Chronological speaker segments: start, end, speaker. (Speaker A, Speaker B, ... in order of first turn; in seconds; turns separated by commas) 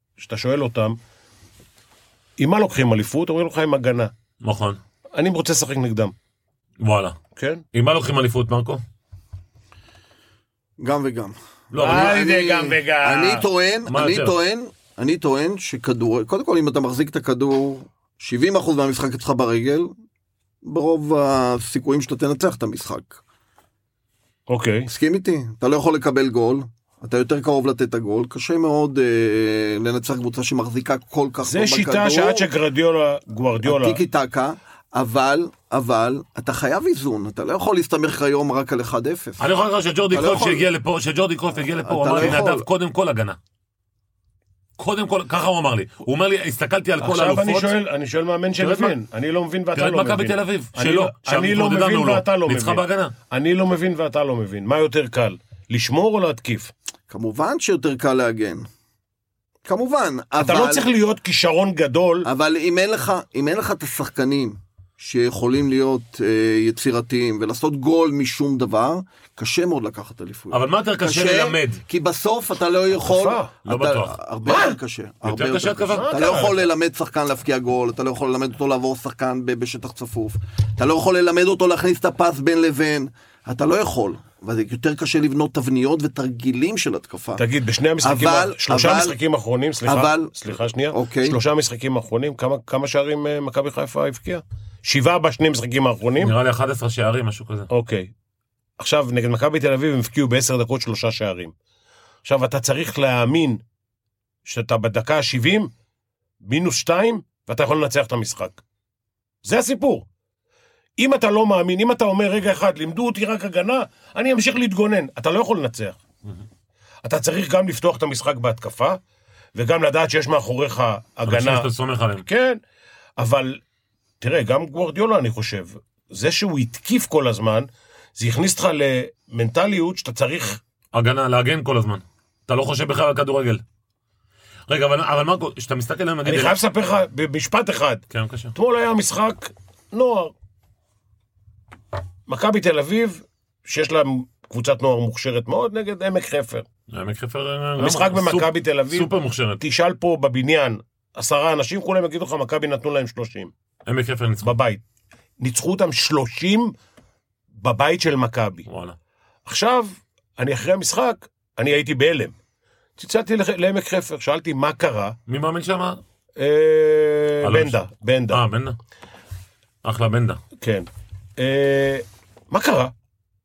Speaker A: 0.2-1.0, Speaker A: 2.4-4.1, Speaker B: 4.4-4.8, Speaker A: 5.1-6.1, Speaker B: 6.8-7.2, Speaker A: 7.3-7.6, Speaker B: 7.7-8.8, Speaker C: 10.8-19.9, Speaker B: 11.7-12.2, Speaker A: 11.8-13.4, Speaker B: 13.9-14.3, Speaker C: 20.6-23.2, Speaker A: 24.5-24.9, Speaker C: 24.9-32.5, Speaker A: 31.4-34.0, Speaker C: 33.6-39.5, Speaker B: 39.4-43.4, Speaker C: 40.1-40.6, Speaker C: 41.8-42.7, Speaker B: 44.8-47.7, Speaker A: 47.0-56.7, Speaker B: 48.6-48.9, Speaker B: 49.7-53.1, Speaker C: 57.1-58.6, Speaker C: 59.6-60.9, Speaker A: 60.4-62.3, Speaker C: 62.2-87.4, Speaker B: 70.5-71.8, Speaker A: 73.0-73.5, Speaker B: 73.6-74.2, Speaker A: 74.5-74.8, Speaker B: 75.2-76.4, Speaker A: 75.9-76.6, Speaker A: 87.4-96.3, Speaker C: 88.0-89.2, Speaker C: 89.8-90.3, Speaker C: 90.9-91.4, Speaker B: 96.2-97.7, Speaker A: 97.7-98.1, Speaker A: 98.8-101.5, Speaker A: 102.2-103.6, Speaker A: 104.4-105.7, Speaker A: 106.4-108.6, Speaker A: 109.4-110.0, Speaker A: 111.0-116.0, Speaker A: 117.0-119.0, Speaker A: 119.5-121.7, Speaker B: 121.2-122.2, Speaker A: 122.2-122.6, Speaker A: 123.2-123.6, Speaker A: 124.2-130.6, Speaker B: 130.9-133.6, Speaker B: 134.7-136.6, Speaker A: 136.2-140.3, Speaker B: 138.1-138.5, Speaker A: 142.3-146.7, Speaker B: 146.9-149.6, Speaker A: 147.8-153.5, Speaker B: 153.8-154.5, Speaker A: 154.4-154.8, Speaker A: 155.4-156.7, Speaker A: 157.6-158.7, Speaker B: 158.7-158.9, Speaker A: 159.4-162.3, Speaker A: 163.0-165.2, Speaker B: 165.3-166.0, Speaker A: 166.4-168.4, Speaker B: 167.4-167.8, Speaker B: 168.3-168.8, Speaker B: 169.8-170.4, Speaker A: 170.6-172.9